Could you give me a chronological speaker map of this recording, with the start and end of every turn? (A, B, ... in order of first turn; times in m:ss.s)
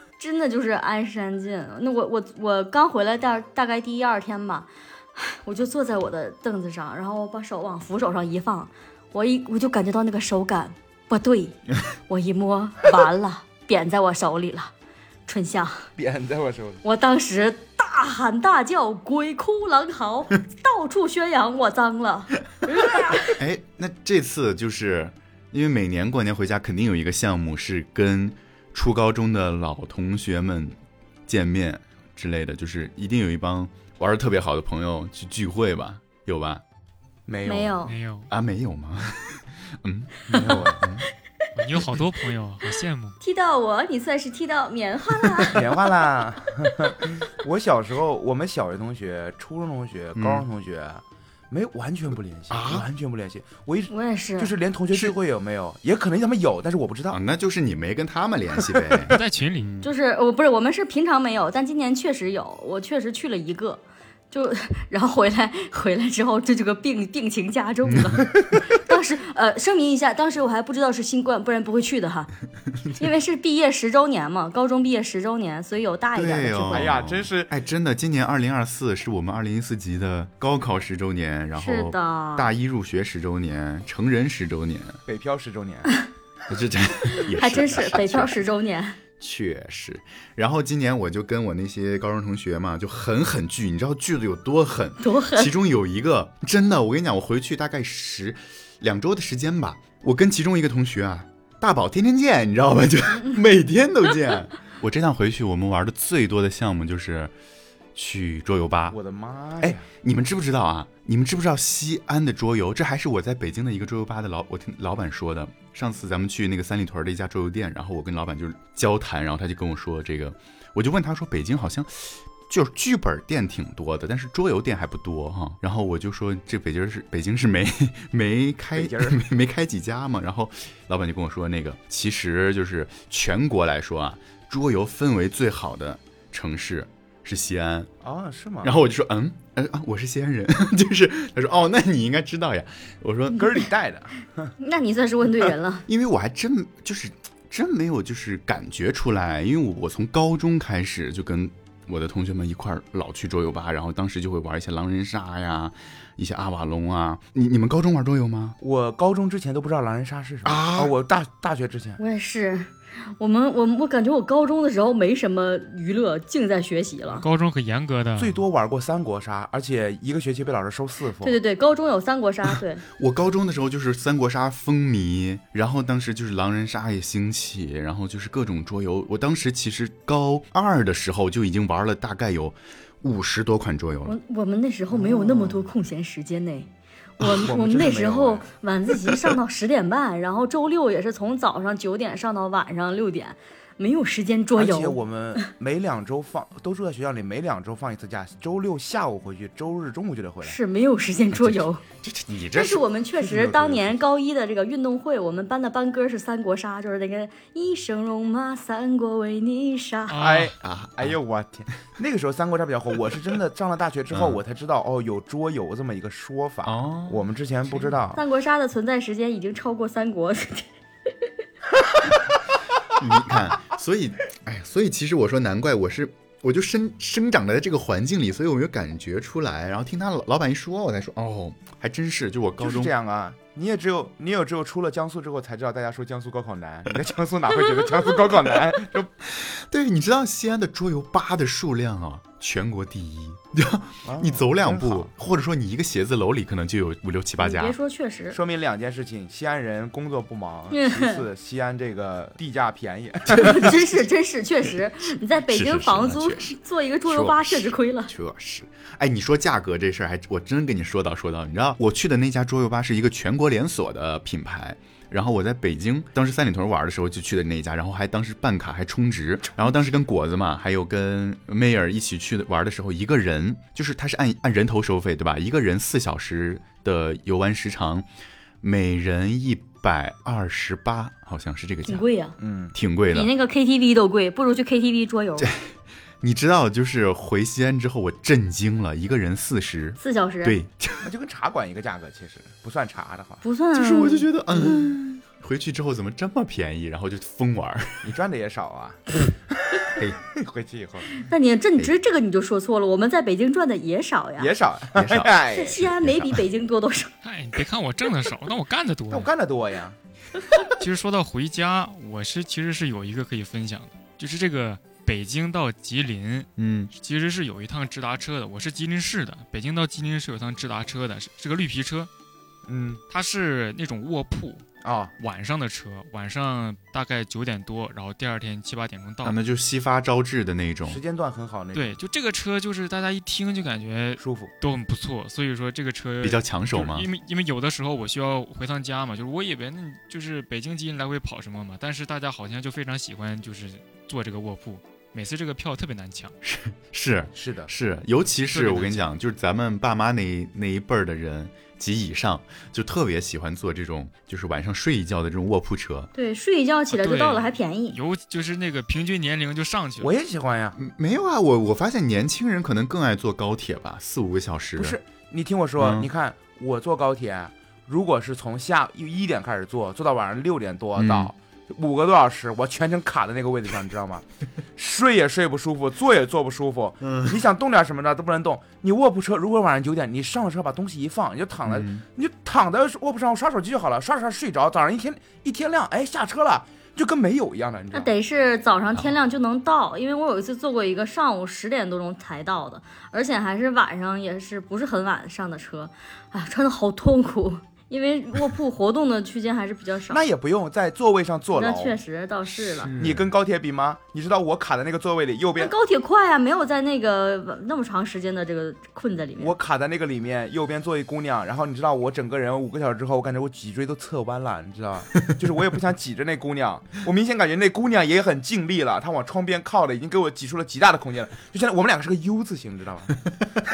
0:00.2-0:14.7 A
0:15.3-0:15.9 A
0:16.0-0:16.8 B
0:16.8-0:23.4 A
0:23.2-0:36.6 C
0:37.3-0:37.8 B
0:37.5-0:37.9 A
0:37.8-0:38.3 D
0:38.3-0:41.0 C
0:40.3-0:40.9 B
0:41.5-0:43.2 D
0:43.2-0:45.6 A
0:45.5-0:57.2 B
0:50.1-0:50.4 C
0:52.5-0:52.9 C
0:53.9-0:54.5 A
0:57.1-0:59.9 C
0:59.1-0:59.7 D
0:59.8-1:12.3 A
1:07.8-1:08.3 C
1:13.0-1:16.9 A
1:16.1-1:25.0 C
1:16.7-1:17.5 B
1:21.5-1:22.5 A
1:25.0-1:25.9 B
1:26.5-1:28.4 C
1:27.2-1:29.0 A
1:29.2-1:47.3 C
1:35.0-1:35.5 A
1:47.9-1:49.0 C
1:48.9-1:49.8 B
1:49.6-2:17.9 C
2:08.7-2:09.2 B
2:18.0-2:18.7 B
2:18.6-2:23.6 C
2:23.4-2:24.5 B
2:24.6-2:25.8 A
2:25.9-2:38.6 C
2:38.6-2:42.0 B
2:40.4-2:40.9 C
2:42.0-2:47.2 A
2:47.1-2:48.4 D
2:48.2-2:51.4 B
2:51.2-2:52.8 A
2:53.0-3:04.2 C
3:04.0-3:15.0 A
3:04.9-3:05.7 B
3:07.2-3:07.5 C
3:07.4-3:08.5 B
3:14.6-3:20.6 B
3:20.4-3:21.8 A
3:21.3-3:22.8 C
3:22.5-3:30.2 A
3:23.3-3:23.8 B
3:23.4-3:23.7 C
3:30.1-3:30.5 D
3:30.2-3:38.2 B
3:30.6-3:31.2 C
3:34.1-3:34.4 C
3:36.6-3:37.2 C
3:38.1-3:40.7 A
3:42.9-3:52.9 C
3:52.6-3:59.1 B
3:59.2-4:07.8 C
4:04.0-4:05.1 B
4:07.4-4:08.4 A
4:08.3-4:14.0 B
4:10.7-4:11.2 A
4:13.3-4:18.1 A
4:15.4-4:38.0 C
4:38.6-4:42.0 C
4:41.8-4:42.4 A
4:42.4-4:42.8 B
4:42.7-4:43.3 C
4:43.1-4:45.5 A
4:45.4-4:51.1 C
4:50.0-4:50.6 A
4:51.0-4:53.4 B
4:53.4-4:54.9 A
4:53.7-4:58.2 C
4:58.0-4:59.2 B
4:59.7-5:01.2 B
4:59.9-5:00.2 C
5:01.2-5:04.5 A
5:04.4-5:05.9 B
5:04.9-5:06.4 C
5:05.5-5:07.1 A
5:07.2-5:09.3 D
5:09.1-5:10.0 B
5:10.7-5:22.1 D
5:16.6-5:16.9 C
5:22.7-5:23.0 B
5:23.1-5:24.6 D
5:24.8-5:25.1 B
5:25.2-5:29.4 D
5:29.2-5:31.0 C
5:30.8-5:32.0 B
5:31.7-5:46.3 D
5:34.2-5:34.5 B
5:36.2-5:37.1 C
5:46.4-5:56.1 C
5:47.3-5:47.7 B
5:48.5-5:49.0 D
5:56.1-5:58.0 A
5:56.9-6:00.1 D
6:00.0-6:00.8 B
6:00.8-6:05.0 C
6:04.8-6:14.2 B
6:05.8-6:06.1 C
6:11.0-6:11.3 C
6:14.8-6:28.1 B
6:17.0-6:17.4 C
6:21.6-6:22.0 C
6:27.9-6:40.2 A
6:40.1-6:42.0 B
6:41.5-6:42.9 A
6:42.8-6:45.7 B
6:42.9-6:43.3 C
6:45.6-6:49.5 A
6:49.4-7:03.2 B